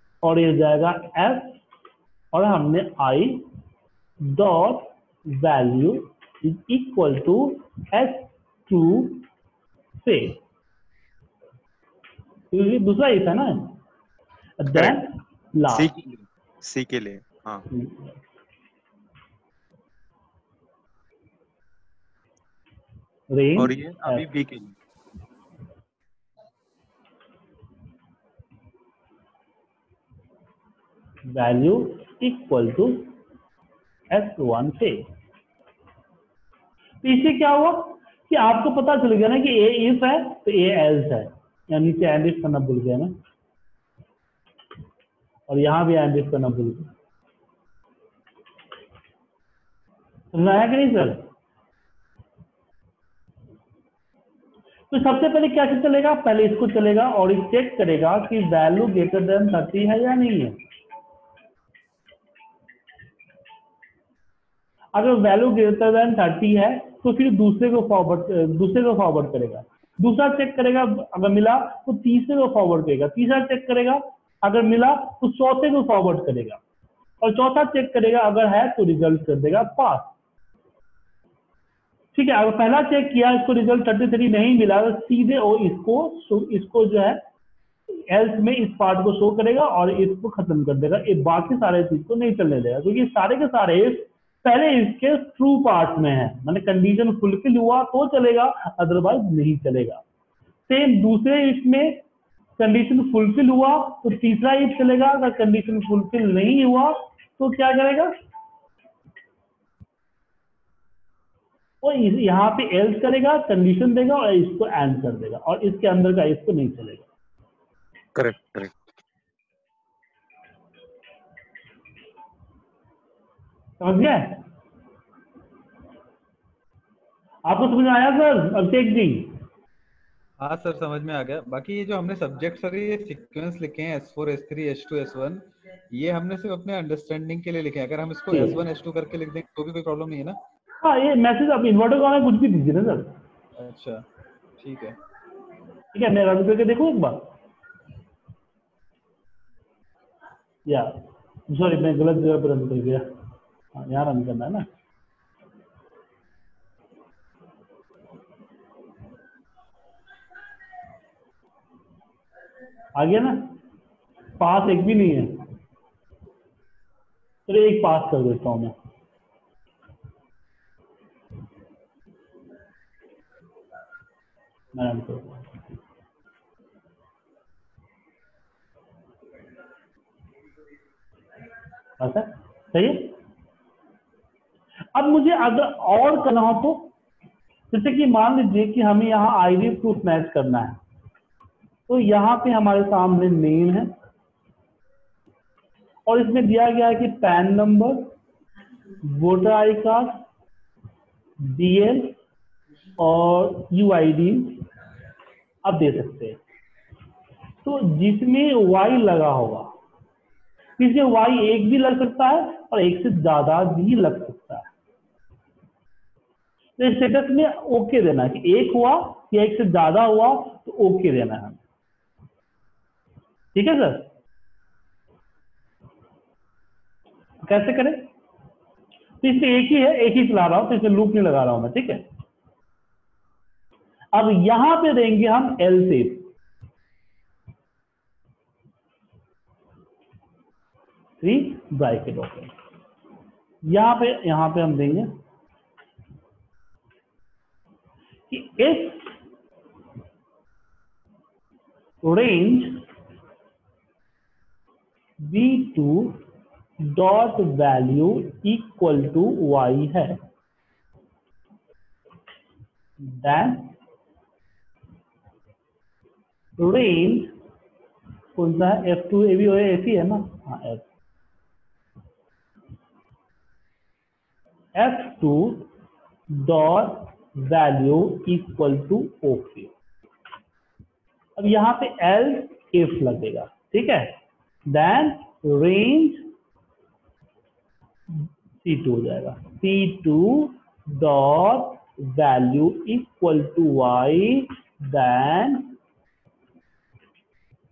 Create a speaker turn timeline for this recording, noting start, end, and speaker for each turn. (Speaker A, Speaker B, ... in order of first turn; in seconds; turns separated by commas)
Speaker A: 0.2-1.6, Speaker A: 2.3-3.4, Speaker A: 4.2-9.2, Speaker A: 10.0-10.4, Speaker A: 12.5-13.8, Speaker A: 14.6-15.9, Speaker B: 14.7-15.0, Speaker B: 15.7-17.6, Speaker A: 17.7-18.2, Speaker A: 23.3-24.2, Speaker B: 23.6-24.8, Speaker A: 31.2-33.1, Speaker A: 34.1-35.0, Speaker A: 37.0-43.2, Speaker A: 45.5-46.9, Speaker A: 50.3-51.3, Speaker A: 54.9-60.6, Speaker A: 64.9-76.6, Speaker A: 77.2-80.1, Speaker A: 82.1-87.2, Speaker A: 88.1-100.0, Speaker A: 100.7-102.0, Speaker A: 102.6-108.1, Speaker A: 111.8-117.0, Speaker B: 118.1-118.8, Speaker A: 123.8-124.4, Speaker A: 127.5-129.4, Speaker C: 130.4-140.4, Speaker A: 138.3-138.6, Speaker A: 140.8-143.2, Speaker C: 143.6-144.0, Speaker C: 144.6-145.0, Speaker A: 145.9-147.3, Speaker A: 150.7-151.0, Speaker A: 151.5-153.1, Speaker A: 153.7-154.7, Speaker A: 162.9-163.6, Speaker A: 164.4-165.4, Speaker A: 167.5-168.7, Speaker A: 174.7-175.6, Speaker A: 182.0-183.1, Speaker A: 184.9-186.9, Speaker A: 187.7-190.8, Speaker A: 191.9-193.9, Speaker A: 196.1-198.1, Speaker A: 199.0-200.2, Speaker A: 201.4-202.2, Speaker A: 203.0-204.6, Speaker A: 205.6-206.4, Speaker A: 207.6-209.7, Speaker A: 210.8-214.7, Speaker A: 216.8-221.6, Speaker A: 223.5-224.1, Speaker A: 227.4-228.1, Speaker A: 229.2-232.0, Speaker A: 234.1-236.3, Speaker A: 241.2-242.5, Speaker A: 243.7-245.2, Speaker A: 248.3-249.1, Speaker A: 252.0-252.8, Speaker A: 255.2-256.2, Speaker A: 256.8-260.2, Speaker A: 263.0-263.7, Speaker A: 266.6-267.3, Speaker A: 268.4-270.9, Speaker A: 274.7-275.7, Speaker A: 276.3-279.7, Speaker A: 281.4-284.2, Speaker A: 284.7-286.3, Speaker A: 288.1-295.7